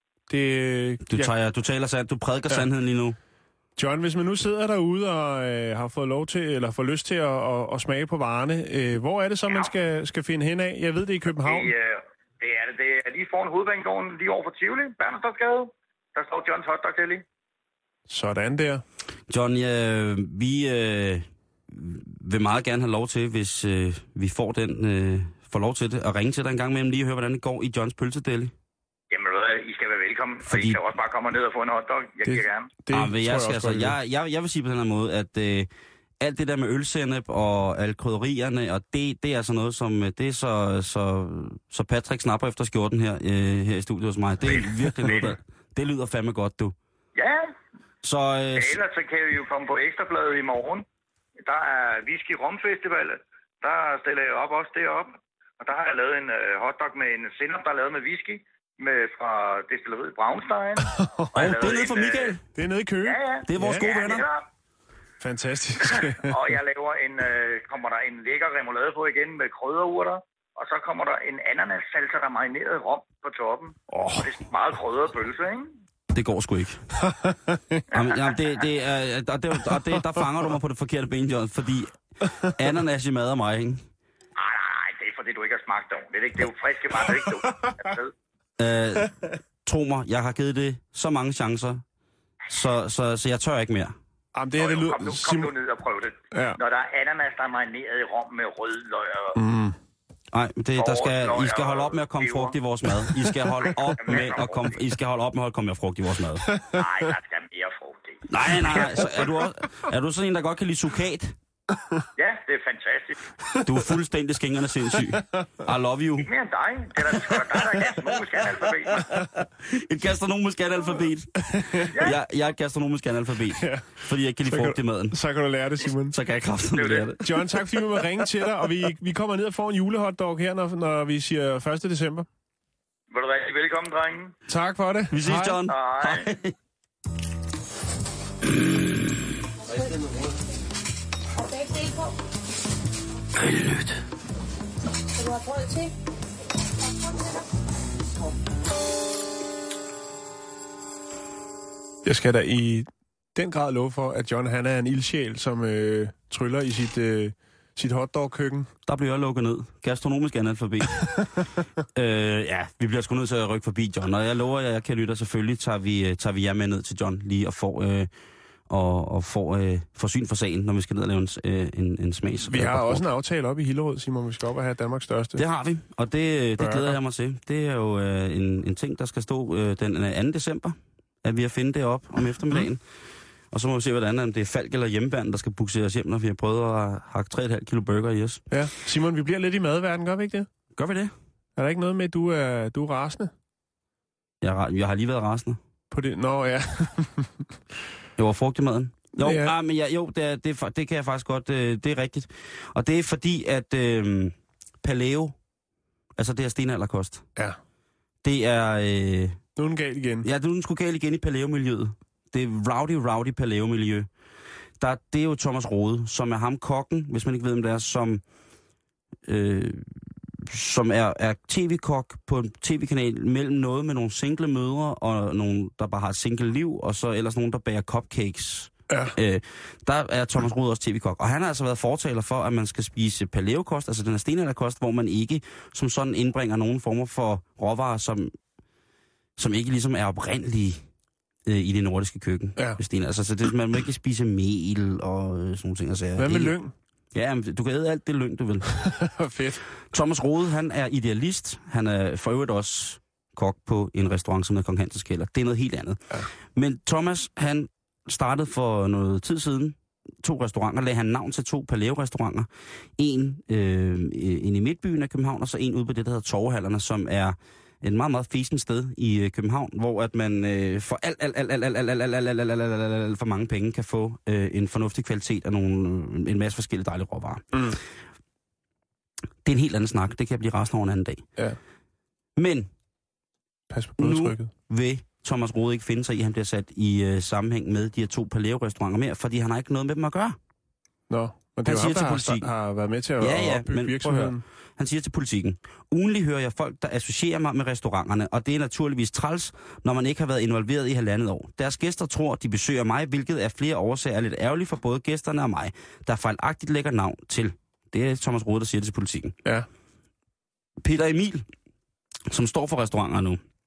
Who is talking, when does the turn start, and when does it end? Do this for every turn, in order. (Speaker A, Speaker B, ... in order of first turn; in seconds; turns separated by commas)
Speaker A: 0.3-1.3, Speaker B: 1.1-3.2, Speaker A: 3.8-11.7, Speaker C: 9.5-9.7, Speaker C: 11.3-17.2, Speaker A: 18.1-18.8, Speaker B: 19.3-28.5, Speaker C: 29.1-32.7, Speaker B: 30.4-30.8, Speaker A: 32.2-33.9, Speaker B: 32.9-35.7, Speaker B: 36.2-46.7, Speaker C: 44.5-45.3, Speaker C: 47.1-47.5, Speaker B: 48.0-48.8, Speaker C: 48.5-50.8, Speaker C: 51.4-62.4, Speaker A: 60.8-61.5, Speaker B: 61.3-62.4, Speaker A: 62.5-63.9, Speaker C: 63.0-64.4, Speaker B: 63.5-64.3, Speaker A: 65.2-66.5, Speaker C: 65.8-75.7, Speaker A: 73.9-74.3, Speaker B: 76.1-76.8, Speaker A: 77.0-77.8, Speaker C: 77.9-78.6, Speaker B: 77.9-83.8, Speaker C: 84.3-88.1, Speaker A: 87.2-87.7, Speaker B: 88.6-89.1, Speaker B: 89.6-91.8, Speaker B: 92.5-93.9, Speaker A: 94.3-95.5, Speaker C: 94.6-99.4, Speaker A: 96.3-96.6, Speaker A: 99.3-99.8, Speaker B: 100.3-106.5, Speaker C: 100.8-102.6, Speaker C: 103.6-104.8, Speaker A: 106.4-106.9, Speaker C: 106.7-109.1, Speaker B: 108.3-111.3, Speaker C: 112.2-113.2, Speaker B: 113.6-116.3, Speaker C: 116.2-119.1, Speaker B: 118.9-125.2, Speaker A: 121.4-121.9, Speaker C: 121.9-122.2, Speaker A: 123.5-126.2, Speaker B: 126.1-127.5, Speaker C: 126.7-127.2, Speaker A: 127.2-132.3, Speaker C: 133.1-134.3, Speaker A: 134.5-135.6, Speaker B: 135.1-136.5, Speaker C: 135.7-136.3, Speaker B: 138.5-138.8, Speaker D: 139.6-140.3, Speaker D: 141.3-142.2, Speaker B: 143.4-144.0, Speaker D: 145.1-145.9, Speaker D: 146.7-147.5, Speaker A: 152.0-158.7, Speaker B: 158.9-161.2, Speaker B: 161.9-168.1, Speaker B: 168.7-173.0, Speaker A: 172.4-175.4, Speaker B: 175.4-182.8, Speaker A: 176.6-177.0, Speaker B: 183.5-188.4, Speaker A: 188.5-190.5, Speaker B: 190.7-191.1, Speaker A: 191.6-193.3, Speaker B: 194.4-195.6, Speaker A: 195.9-197.5, Speaker B: 198.2-205.3, Speaker A: 199.2-199.5, Speaker B: 206.2-207.2, Speaker B: 208.2-209.4, Speaker A: 209.6-210.3, Speaker B: 210.2-214.1, Speaker B: 214.8-218.2, Speaker B: 219.3-219.9, Speaker B: 220.4-238.3, Speaker A: 228.9-229.1, Speaker B: 239.4-240.8, Speaker B: 241.4-246.5, Speaker A: 242.6-242.8, Speaker A: 246.2-246.7, Speaker B: 247.1-248.8, Speaker A: 248.7-249.6, Speaker B: 249.9-256.0, Speaker B: 256.5-262.5, Speaker B: 263.0-277.5, Speaker A: 277.5-277.8, Speaker B: 279.4-281.2, Speaker B: 282.4-282.7, Speaker A: 283.7-284.5, Speaker B: 284.0-290.4, Speaker A: 291.1-294.4, Speaker B: 291.6-292.5, Speaker B: 293.2-309.3, Speaker B: 310.8-311.4, Speaker B: 312.3-313.4